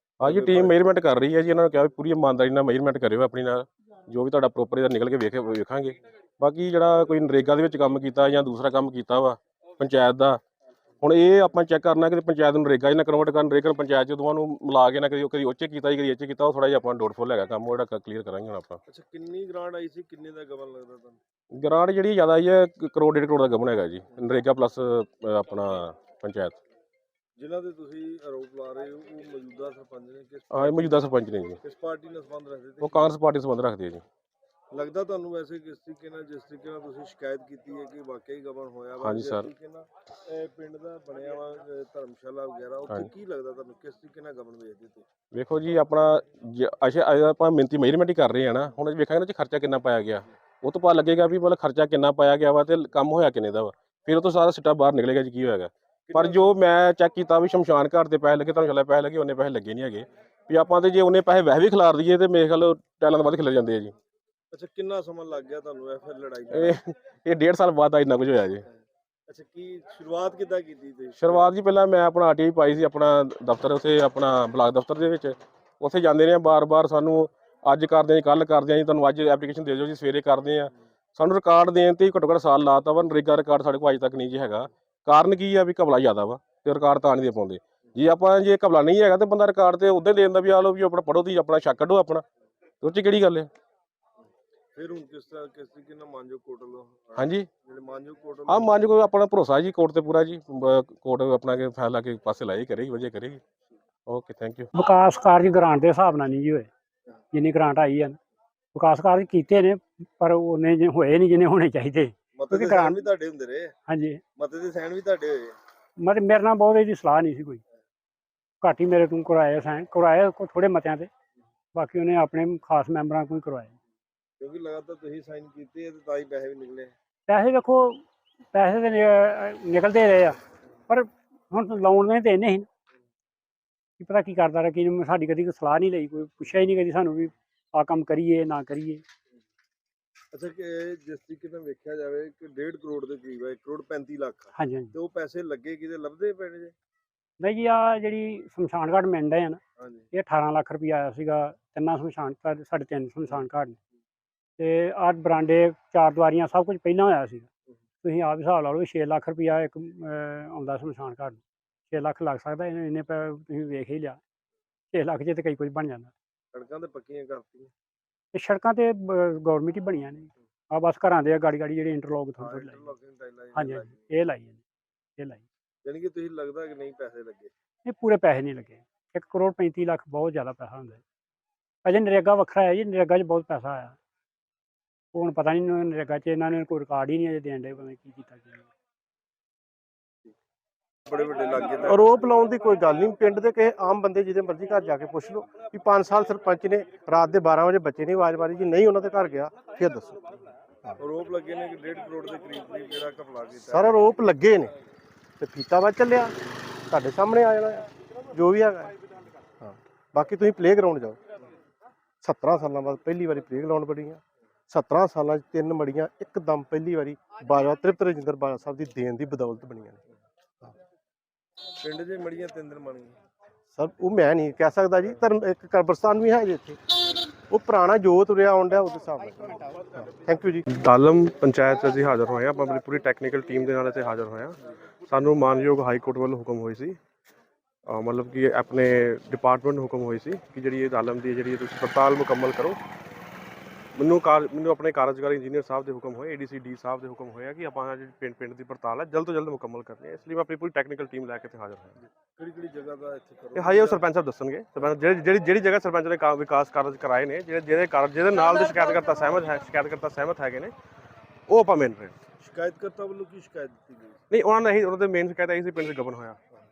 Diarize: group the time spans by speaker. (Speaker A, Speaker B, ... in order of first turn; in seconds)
Speaker A: 0.2-10.4, 11.0-18.8, 21.5-26.6, 30.5-31.6, 32.8-34.0, 39.0-39.5, 45.3-64.0, 66.5-68.7, 71.2-92.2, 92.8-93.5, 97.2-97.5, 98.5-103.4, 104.1-104.7, 230.7-234.6, 235.1-237.0, 237.9-242.8, 244.0-252.0, 253.6-260.7, 261.5-262.2, 264.3-266.4
Speaker B: 0.2-0.8, 18.9-21.2, 27.4-33.2, 34.7-45.1, 56.1-56.6, 64.5-66.8, 69.3-71.5, 94.8-98.8, 112.4-113.7, 114.4-115.6, 124.4-126.9, 140.3-146.7, 149.8-150.1, 166.5-167.7, 172.4-174.1, 175.8-177.5, 191.1-192.0, 201.0-204.0, 221.8-223.2, 252.4-254.1, 262.4-264.2
Speaker C: 104.7-106.7, 107.3-108.2, 108.7-113.0, 113.9-114.2, 116.0-117.6, 118.6-121.1, 121.7-123.8, 127.3-130.4, 130.9-132.7, 134.0-139.0, 144.6-144.9, 147.4-149.6, 150.1-153.8, 154.6-157.5, 158.0-164.2, 164.9-166.1, 168.3-172.9, 173.6-174.6, 175.2-175.4, 177.8-181.0, 181.8-184.0, 185.1-188.7
Speaker D: 191.8-201.0, 203.7-204.7, 205.4-206.3, 206.9-208.9, 209.6-211.2, 212.2-220.0, 223.7-226.8, 227.5-230.7